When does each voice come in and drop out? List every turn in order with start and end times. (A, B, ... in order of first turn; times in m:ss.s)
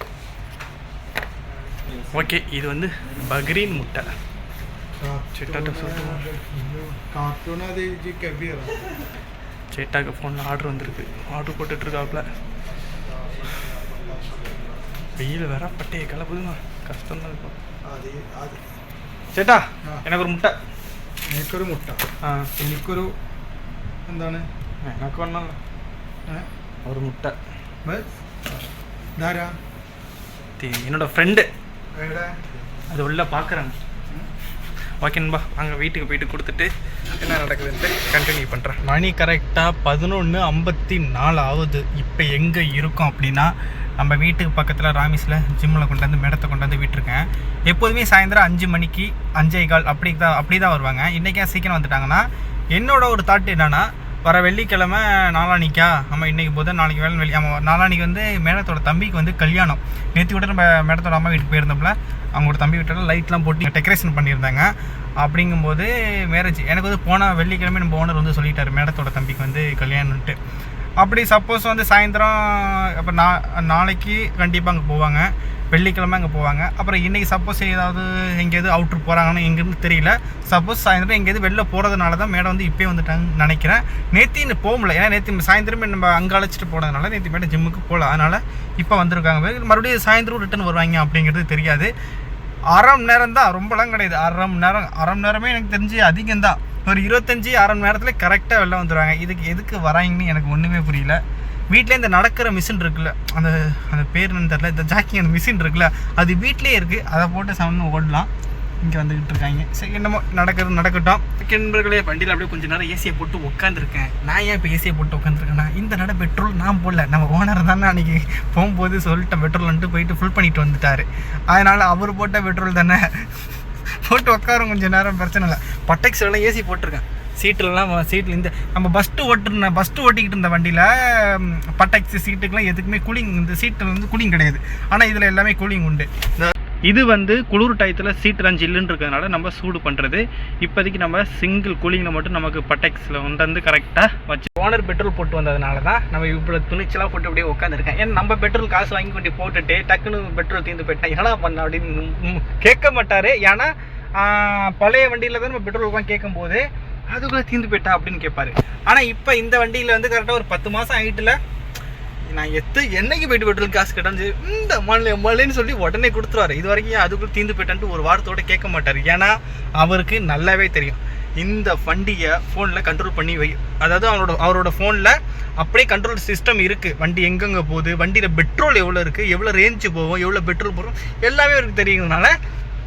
0:02.1-0:04.1 A
0:05.0-0:08.8 B
0:05.3-0:06.3 A
0:09.7-0:12.3 A
0:14.1-0:14.6 B
0:15.2-0:17.6 A
0:17.8-0:18.6 B
0:19.3-0:20.5 A
0:21.2-0:22.0 B
0:22.2-0:22.5 A
0:22.6-0:23.1 B
0:24.1-0:24.5 B
0:24.8-0:25.6 A
0:26.8-0:27.4 A
0:27.8-0:28.1 B
0:29.2-0:29.6 B
0:30.6-0:31.5 A
0:32.0-0:32.4 B
0:32.9-0:33.7 A
0:35.0-1:10.4 A
1:11.0-1:31.9 A
1:32.7-1:48.3 A
1:48.8-2:03.5 A
2:04.0-2:41.4 A
2:42.3-3:02.4 A